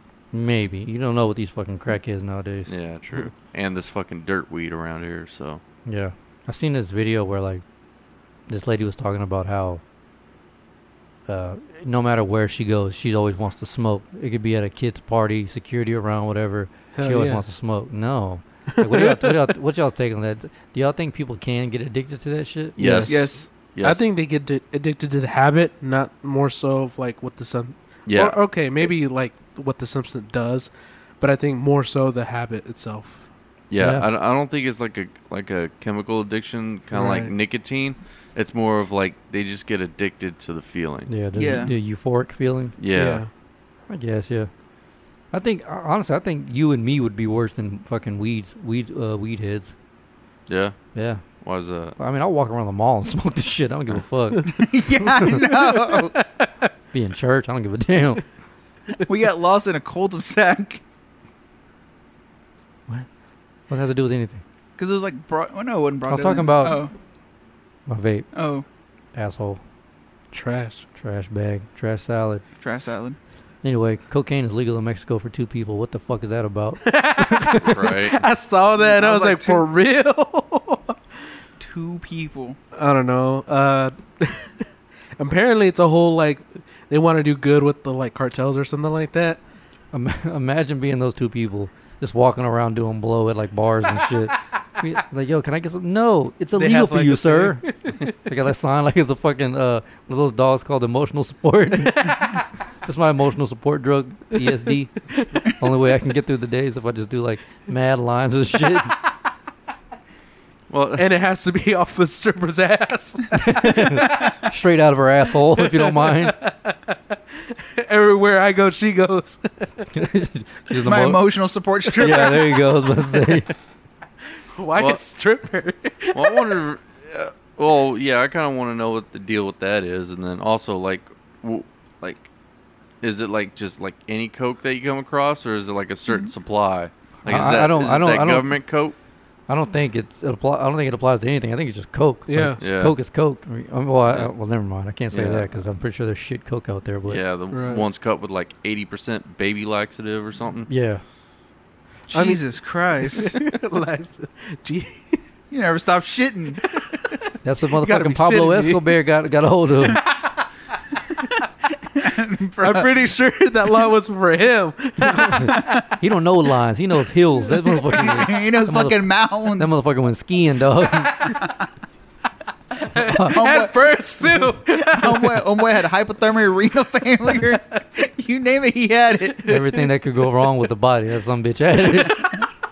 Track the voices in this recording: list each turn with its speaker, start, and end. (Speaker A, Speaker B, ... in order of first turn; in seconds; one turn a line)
Speaker A: 0.3-2.7
Speaker B: 2.7-5.6
Speaker A: 5.8-7.6
Speaker A: 8.5-9.8
Speaker A: 11.3-23.1
Speaker C: 16.9-17.4
Speaker C: 18.8-19.3
Speaker B: 22.8-24.1
Speaker C: 22.8-23.2
Speaker D: 23.1-23.5
Speaker C: 23.8-33.3
Speaker B: 28.1-28.9
Speaker B: 33.7-41.1
Speaker A: 33.8-34.0
Speaker C: 36.9-37.3
Speaker A: 41.1-42.7
Speaker D: 41.3-41.7
Speaker B: 42.8-43.2
Speaker C: 42.9-43.3
Speaker A: 43.9-44.5
Speaker A: 45.3-49.7
Speaker B: 50.5-52.0
Speaker A: 50.9-51.2
Speaker A: 52.0-55.4
Speaker D: 54.5-56.1
Speaker C: 56.1-56.7
Speaker A: 56.9-58.2
Speaker D: 59.0-60.8
Speaker A: 63.7-64.4
Speaker D: 64.8-66.9
Speaker A: 66.1-66.8
Speaker A: 67.9-68.3
Speaker D: 68.3-68.6
Speaker A: 69.1-69.6
Speaker C: 70.3-70.8
Speaker A: 71.0-72.4
Speaker D: 72.6-73.2
Speaker A: 73.6-76.8
Speaker C: 76.8-81.0
Speaker B: 77.6-78.2
Speaker D: 78.8-79.7
Speaker D: 81.6-82.6
Speaker C: 82.7-89.4
Speaker A: 89.9-108.9
Speaker C: 96.5-98.0
Speaker B: 110.7-111.1
Speaker C: 111.0-114.4
Speaker A: 113.3-116.3
Speaker C: 115.6-117.2
Speaker C: 117.8-119.8
Speaker A: 119.9-121.2
Speaker D: 120.8-122.4
Speaker A: 122.0-123.5
Speaker C: 122.0-122.4
Speaker C: 123.1-123.4
Speaker C: 124.5-126.5
Speaker B: 124.8-125.0
Speaker B: 126.1-132.3
Speaker B: 133.0-138.9
Speaker A: 137.2-138.5
Speaker A: 139.5-147.2
Speaker C: 142.3-142.6
Speaker B: 142.6-142.9
Speaker B: 145.1-145.6
Speaker B: 147.1-150.7
Speaker C: 147.5-147.8
Speaker A: 150.7-151.0
Speaker D: 152.1-153.4
Speaker C: 152.1-155.2
Speaker D: 155.5-156.6
Speaker C: 156.6-157.2
Speaker A: 157.4-160.0
Speaker C: 157.7-158.9
Speaker D: 161.9-162.9
Speaker C: 162.6-165.6
Speaker A: 165.0-171.3
Speaker D: 165.5-165.8
Speaker D: 167.9-169.7
Speaker C: 173.0-175.4
Speaker A: 173.0-173.3
Speaker D: 173.3-179.5
Speaker A: 179.5-182.2